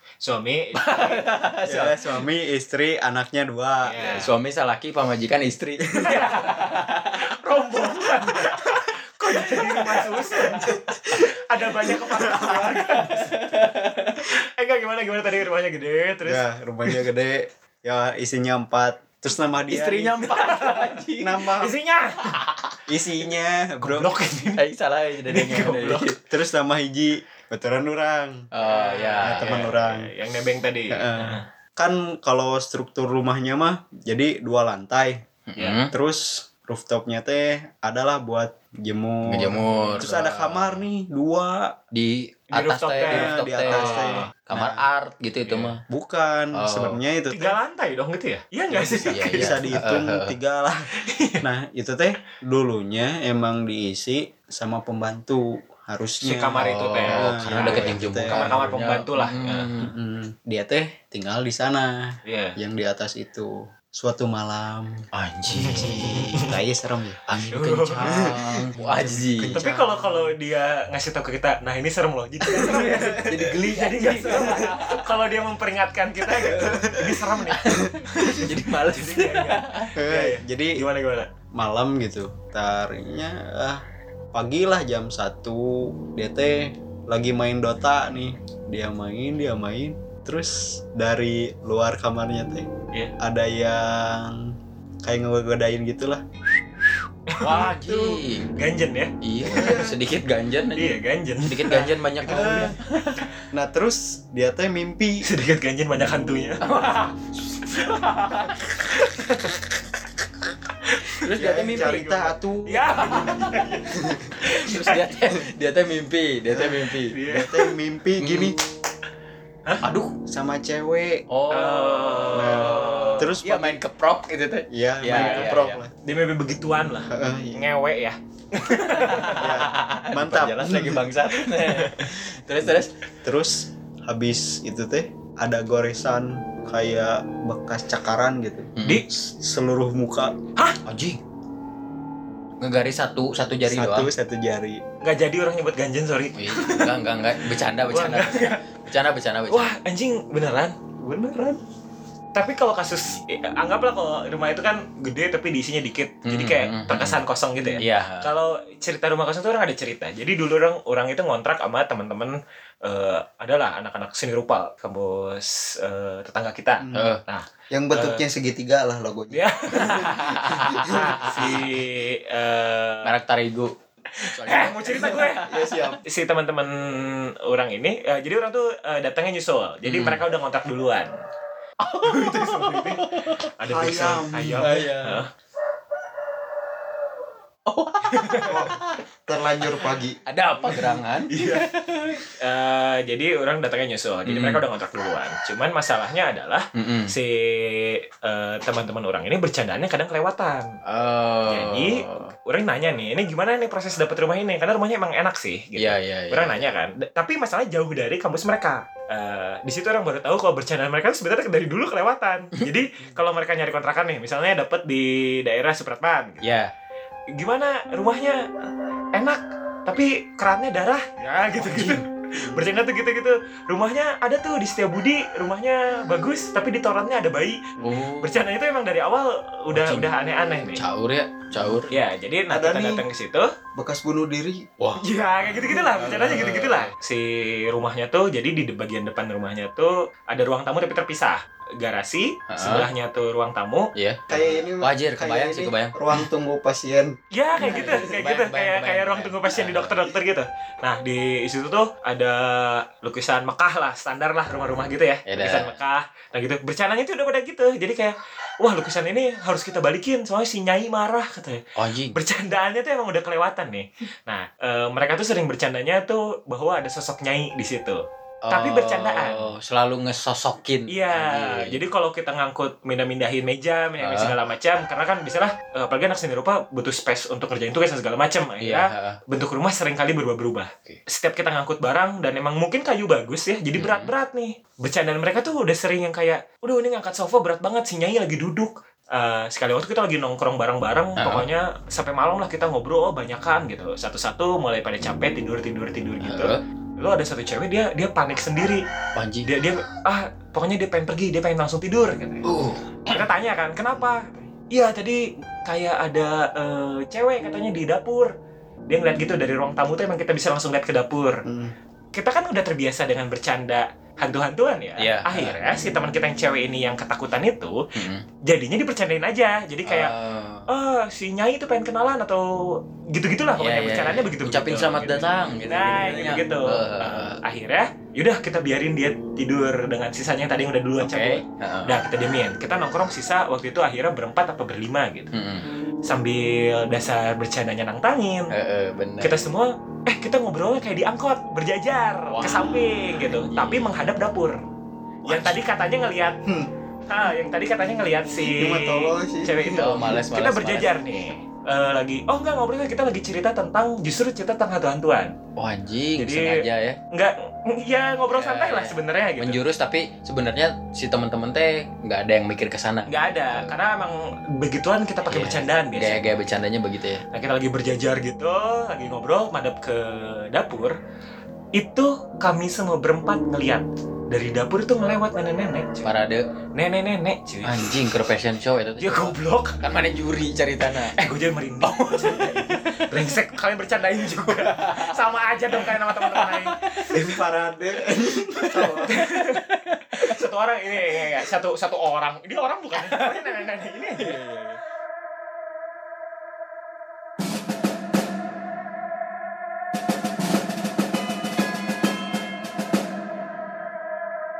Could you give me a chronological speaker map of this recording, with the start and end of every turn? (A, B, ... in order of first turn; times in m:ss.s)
0:00.2-0:01.2 A
0:00.8-0:02.2 B
0:01.6-0:04.2 C
0:03.8-0:04.3 A
0:04.0-0:10.9 B
0:05.9-0:13.3 A
0:10.6-0:11.2 C
0:12.0-0:12.7 C
0:12.4-0:14.4 B
0:14.2-0:17.0 A
0:16.2-0:20.3 C
0:19.7-0:21.5 B
0:20.3-0:20.9 A
0:21.2-0:21.7 C
0:21.4-0:22.4 A
0:22.2-0:22.8 B
0:22.9-0:24.1 C
0:23.8-0:24.6 A
0:24.6-0:26.2 B
0:25.3-0:26.2 A
0:26.3-0:28.5 C
0:28.5-0:29.7 B
0:28.6-0:31.4 A
0:29.2-0:30.1 C
0:30.9-0:35.2 C
0:35.5-0:35.9 B
0:35.9-0:41.8 C
0:39.3-0:40.8 B
0:39.7-0:40.0 A
0:41.9-0:45.8 B
0:42.5-0:44.3 A
0:43.0-0:44.8 C
0:45.5-0:45.8 A
0:45.9-0:47.6 C
0:46.5-0:47.0 B
0:47.3-0:49.8 A
0:48.7-0:50.9 C
0:49.1-0:50.3 B
0:50.9-0:51.4 A
0:51.4-0:58.8 C
0:56.2-0:59.7 A
0:56.6-0:59.9 B
0:59.8-1:07.2 C
1:02.2-1:02.6 A
1:05.1-1:06.5 B
1:05.6-1:06.5 A
1:07.2-1:09.6 B
1:07.5-1:08.4 A
1:08.0-1:10.3 C
1:09.5-1:21.3 A
1:12.5-1:13.4 C
1:12.7-1:15.2 B
1:16.3-1:16.8 B
1:16.5-1:17.2 C
1:17.6-1:17.9 B
1:17.7-1:18.4 C
1:18.4-1:19.9 B
1:20.0-1:20.8 C
1:21.5-1:36.2 C
1:37.3-1:39.8 A
1:37.4-1:38.5 B
1:39.2-1:40.9 B
1:39.4-1:40.0 C
1:40.8-1:41.9 A
1:41.4-1:43.3 B
1:41.7-1:42.8 C
1:43.5-1:45.2 C
1:45.2-1:46.8 A
1:46.6-1:49.1 B
1:47.8-1:48.0 A
1:48.8-1:49.8 A
1:50.8-1:51.2 A
1:51.2-1:52.4 B
1:51.3-1:54.4 C
1:52.6-1:55.0 A
1:52.9-1:53.7 B
1:54.4-1:57.1 B
1:56.5-1:58.6 C
1:57.1-1:57.7 A
1:58.2-1:58.6 B
1:59.8-2:00.1 B
2:00.2-2:01.2 C
2:01.3-2:05.8 B
2:01.5-2:03.3 A
2:02.3-2:03.8 C
2:04.7-2:05.9 C
2:05.1-2:09.5 A
2:07.1-2:07.6 C
2:08.7-2:12.9 B
2:09.3-2:11.1 C
2:11.6-2:12.0 A
2:13.2-2:20.3 C
2:18.8-2:19.0 B
2:20.8-2:21.2 B
2:22.6-2:24.1 B
2:23.6-2:24.8 C
2:25.0-2:26.9 A
2:26.4-2:29.7 B
2:27.9-2:28.6 A
2:29.5-2:30.8 A
2:31.0-2:31.6 C
2:32.3-2:48.2 A
2:36.2-2:37.2 B
2:37.8-2:38.3 B
2:46.8-2:47.1 C
2:46.9-2:47.2 B
2:47.7-2:51.3 C
2:49.3-2:53.2 A
2:49.8-2:51.7 B
2:53.0-2:55.4 B
2:54.1-3:01.1 A
2:55.0-2:56.0 C
2:59.8-3:00.2 B
3:01.8-3:03.5 B
3:02.0-3:05.3 A
3:03.6-3:05.0 C
3:04.5-3:05.2 B
3:07.6-3:09.0 B
3:08.0-3:08.6 A
3:08.4-3:10.2 C
3:09.6-3:12.2 B
3:09.6-3:10.0 A
3:10.6-3:11.7 A
3:12.3-3:20.7 A
3:14.2-3:14.6 B
3:16.7-3:17.1 B
3:20.9-3:22.3 B
3:21.4-3:36.4 A
3:25.8-3:26.7 B
3:36.4-3:36.7 B
3:37.3-3:38.5 A
3:39.1-3:50.8 A
3:41.6-3:42.0 B
3:47.8-3:48.4 B
3:49.7-3:50.1 B
3:50.7-3:51.9 B
3:51.6-3:51.8 C
3:51.9-3:53.5 A
3:52.5-3:53.0 C
3:53.8-3:54.6 C
3:54.8-3:56.9 B
3:55.0-4:03.9 A
4:02.5-4:02.9 B
4:03.9-4:06.0 B
4:04.3-4:08.0 C
4:07.3-4:29.5 A
4:07.6-4:10.0 B
4:15.2-4:15.7 B
4:21.8-4:22.2 B
4:28.4-4:31.8 B
4:30.9-4:58.8 A
4:34.0-4:34.4 B
4:38.6-4:39.2 B
4:43.8-4:44.1 B
4:51.2-4:51.5 B
4:56.2-4:56.6 B
4:59.1-4:59.5 B
4:59.4-5:02.5 A
5:02.4-5:03.2 B
5:03.1-5:08.3 A
5:08.9-5:11.4 A
5:11.4-5:11.7 C
5:12.1-5:17.8 A
5:15.0-5:15.6 B
5:17.9-5:18.2 B
5:18.4-5:20.1 A
5:19.8-5:20.7 B
5:20.7-5:35.3 A
5:23.6-5:27.4 B
5:31.0-5:32.0 B
5:35.3-5:35.6 B
5:36.0-5:38.5 A
5:38.5-5:39.4 B
5:39.2-5:44.6 A
5:42.3-5:44.0 B
5:45.2-5:46.4 A
5:47.1-5:55.3 A
5:48.4-5:50.1 C
5:49.7-5:50.9 B
5:55.6-5:57.0 B
5:56.2-5:59.6 A
5:58.3-6:03.7 B
6:03.1-6:06.2 A
6:05.3-6:07.2 B
6:07.3-6:11.0 A
6:11.8-6:16.1 A
6:16.0-6:16.4 B
6:16.7-6:18.0 A
6:17.6-6:21.3 B
6:19.0-6:19.8 A
6:21.0-6:27.1 A
6:21.8-6:23.4 B
6:24.3-6:27.3 B
6:27.1-6:29.2 C
6:28.3-6:30.4 B
6:29.0-6:34.4 A
6:31.1-6:31.4 B
6:32.9-6:33.6 B
6:34.2-6:34.8 B